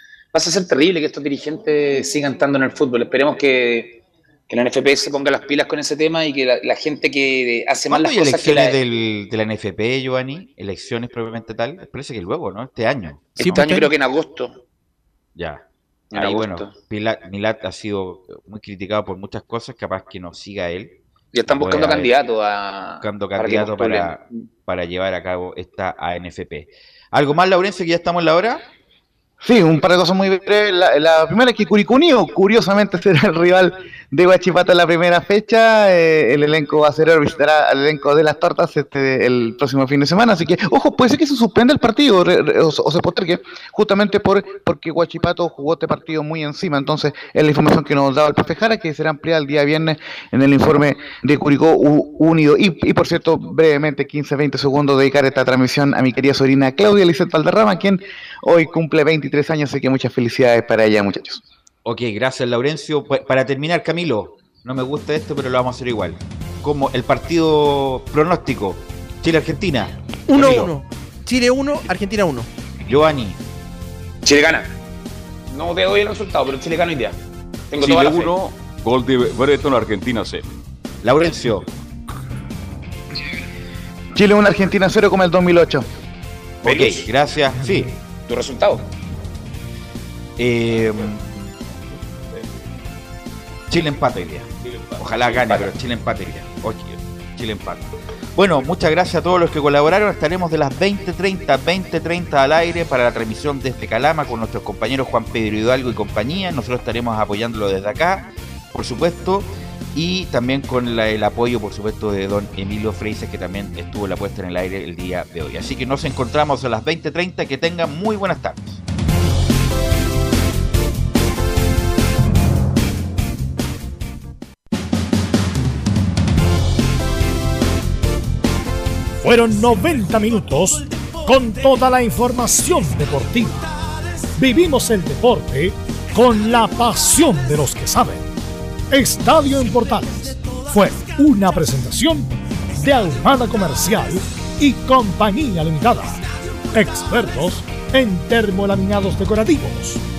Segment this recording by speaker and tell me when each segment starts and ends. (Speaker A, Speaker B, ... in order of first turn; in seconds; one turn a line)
Speaker A: 0.3-8.8
Speaker B: 7.9-13.3
Speaker A: 13.4-14.6
Speaker C: 13.4-13.9
Speaker B: 15.3-22.1
Speaker A: 16.1-16.7
Speaker A: 21.3-24.2
Speaker B: 23.0-28.6
Speaker D: 29.4-61.4
Speaker B: 61.8-70.7
Speaker C: 70.3-72.5
Speaker B: 72.8-73.4
Speaker A: 74.2-74.7
Speaker A: 75.5-77.2
Speaker A: 77.7-78.3
Speaker E: 77.8-80.5
Speaker B: 81.0-81.7
Speaker D: 84.1-85.8
Speaker B: 86.6-87.9
Speaker A: 86.7-87.0
Speaker A: 88.3-88.8
Speaker B: 90.4-91.3
Speaker B: 93.7-118.8
Speaker E: 94.6-95.7
Speaker F: 129.2-133.7
Speaker F: 134.3-138.3
Speaker F: 138.9-146.2
Speaker F: 146.7-150.0